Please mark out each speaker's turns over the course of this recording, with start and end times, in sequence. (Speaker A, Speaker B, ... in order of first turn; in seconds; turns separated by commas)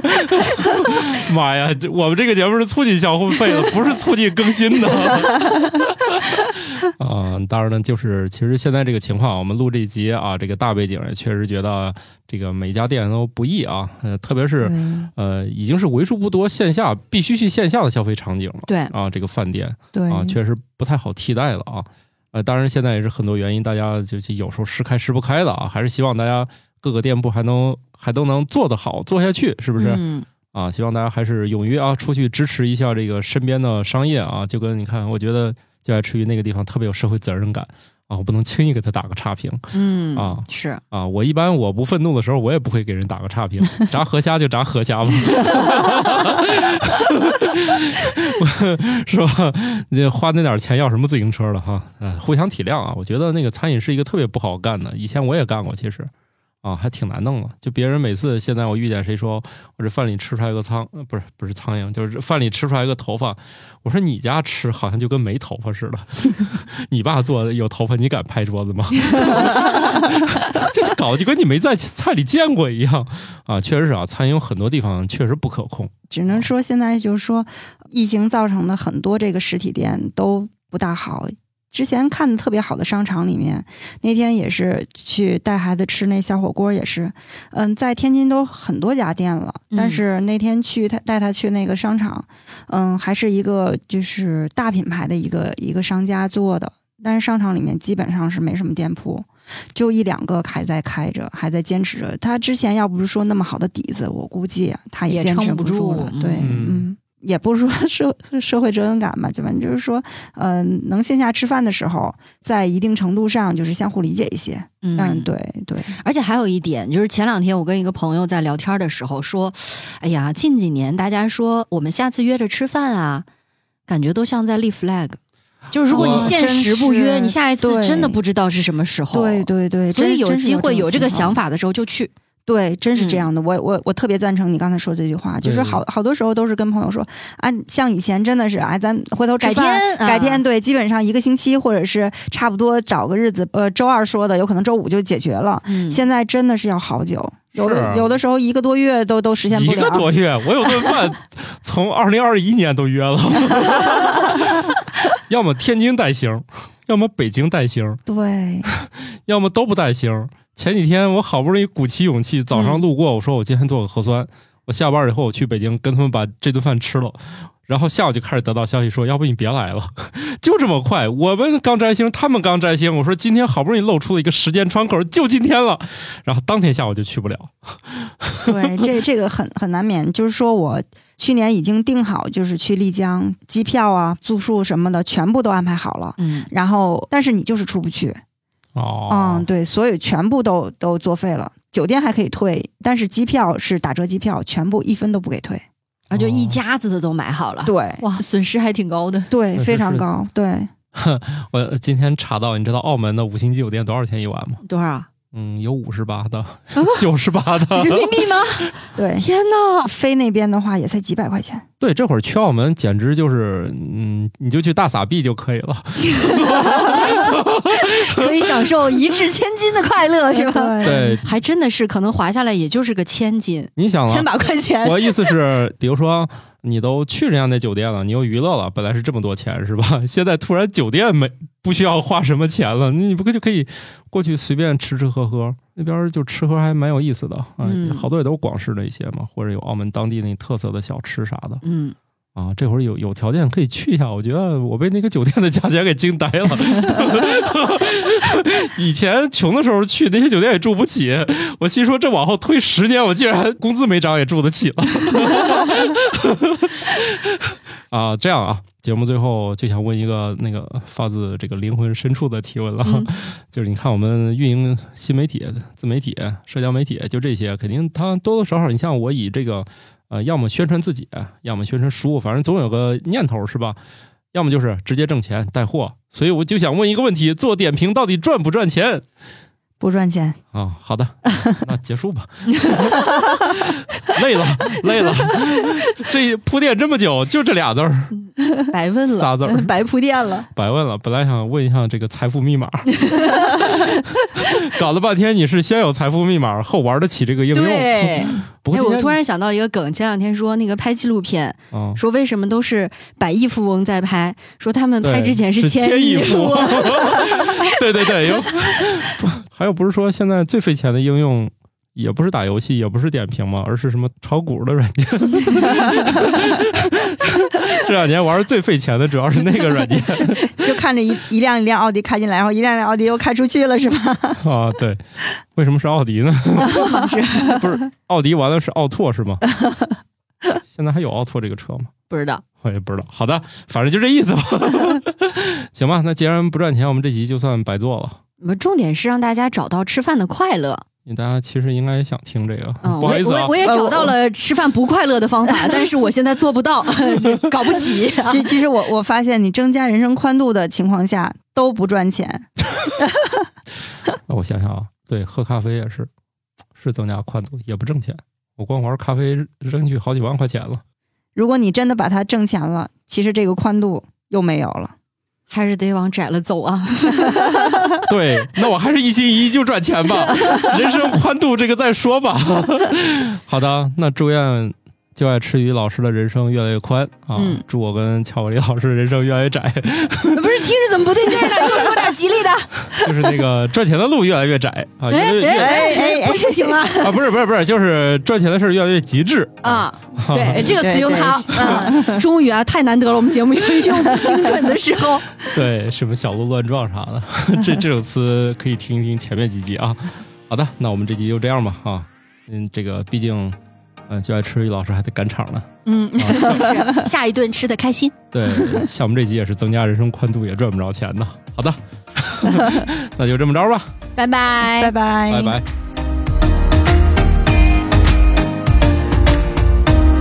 Speaker A: 0.5-56.1, Speaker B: 14.6-15.1, Speaker C: 18.7-18.9, Speaker B: 19.9-20.4, Speaker C: 29.8-30.3, Speaker C: 39.7-40.8, Speaker A: 56.6-76.5, Speaker B: 76.1-116.0, Speaker C: 89.7-90.0, Speaker C: 105.1-106.5, Speaker A: 106.4-106.9, Speaker C: 114.8-115.3, Speaker C: 116.0-123.3, Speaker C: 123.9-125.2, Speaker C: 125.7-132.1, Speaker A: 125.9-126.4, Speaker B: 125.9-128.2, Speaker B: 129.1-131.4, Speaker B: 132.5-150.1, Speaker C: 132.9-133.3, Speaker A: 135.4-135.8, Speaker C: 139.4-140.4, Speaker C: 145.7-146.0, Speaker A: 147.6-148.2, Speaker A: 149.5-158.0, Speaker B: 158.1-158.7, Speaker A: 158.7-178.8, Speaker C: 162.5-162.8, Speaker B: 178.4-188.2, Speaker C: 186.2-186.5, Speaker A: 188.8-189.5, Speaker B: 189.1-195.6, Speaker C: 196.1-199.3, Speaker A: 196.1-196.6, Speaker B: 197.7-198.0, Speaker B: 199.3-200.7, Speaker A: 199.6-200.1, Speaker A: 200.9-204.6, Speaker C: 204.6-205.1, Speaker A: 205.3-208.3, Speaker C: 206.8-207.0, Speaker C: 207.7-209.9, Speaker B: 209.0-209.3, Speaker B: 209.8-211.7, Speaker A: 211.8-219.0, Speaker C: 216.2-225.3, Speaker B: 220.3-221.2, Speaker A: 220.8-221.2, Speaker A: 223.8-224.3, Speaker A: 224.8-241.6, Speaker C: 237.6-238.1, Speaker C: 241.6-242.0, Speaker A: 242.3-273.8, Speaker C: 262.8-263.1, Speaker A: 274.3-279.1, Speaker B: 279.8-280.4, Speaker A: 280.5-288.2, Speaker B: 281.3-281.6, Speaker C: 282.6-283.4, Speaker C: 288.7-290.5, Speaker A: 289.2-289.7, Speaker A: 290.5-299.2, Speaker C: 292.9-294.1, Speaker C: 297.5-308.5, Speaker A: 301.7-302.0, Speaker A: 305.0-320.8, Speaker B: 320.4-324.4, Speaker A: 324.4-325.0, Speaker A: 325.5-329.4, Speaker C: 326.6-327.6, Speaker A: 330.7-331.9, Speaker C: 332.1-332.4, Speaker A: 332.6-338.2, Speaker C: 338.4-340.9, Speaker A: 341.1-343.6, Speaker C: 342.8-348.5, Speaker B: 343.6-344.1, Speaker B: 348.2-353.4, Speaker A: 354.3-356.1, Speaker A: 356.8-360.8, Speaker B: 361.4-364.9, Speaker C: 365.5-368.0, Speaker A: 368.1-380.6, Speaker C: 370.4-370.7, Speaker C: 377.4-377.6, Speaker C: 380.3-383.1, Speaker A: 382.9-385.9, Speaker C: 385.1-387.2, Speaker B: 385.5-386.9, Speaker A: 387.0-390.9, Speaker C: 389.6-395.6, Speaker B: 390.6-392.2, Speaker A: 395.5-403.6, Speaker A: 404.1-406.8, Speaker C: 405.9-408.8, Speaker A: 408.3-413.9, Speaker C: 414.2-414.9, Speaker B: 414.8-415.6, Speaker A: 415.3-415.7